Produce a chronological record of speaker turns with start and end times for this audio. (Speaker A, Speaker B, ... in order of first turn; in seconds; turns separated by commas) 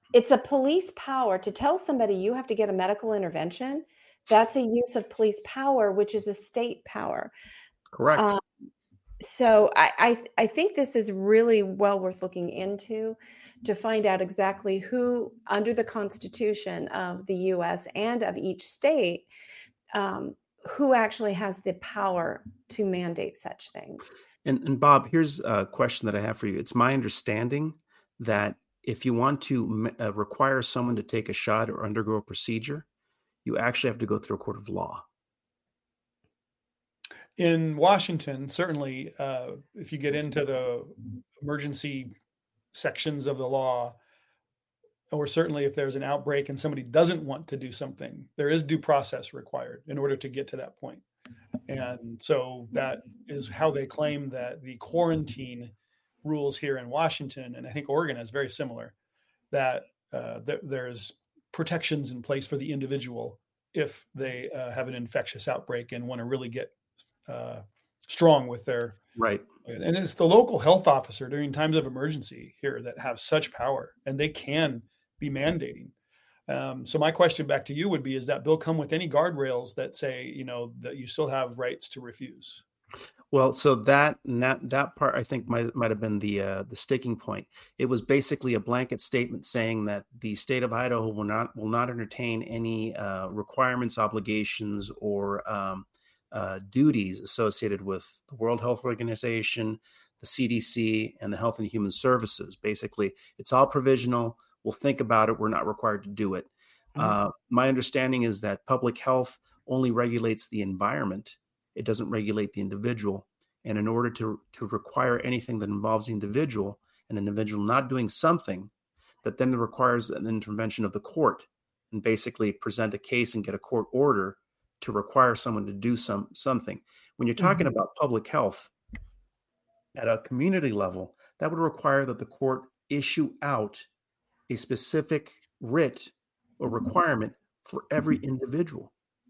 Speaker A: 0.1-7.3, Speaker B: 7.9-8.3, Speaker A: 8.1-8.4, Speaker A: 9.2-19.3, Speaker A: 19.9-24.1, Speaker B: 24.4-32.9, Speaker B: 33.5-35.0, Speaker C: 37.4-42.1, Speaker C: 42.7-44.0, Speaker C: 45.1-51.0, Speaker C: 51.7-55.7, Speaker C: 56.2-58.9, Speaker C: 59.5-66.7, Speaker C: 67.3-69.0, Speaker B: 69.2-69.5, Speaker C: 69.7-75.9, Speaker C: 76.5-82.6, Speaker B: 83.3-118.7, Speaker B: 119.2-128.7, Speaker A: 127.4-127.7, Speaker B: 129.9-133.9, Speaker B: 134.5-138.9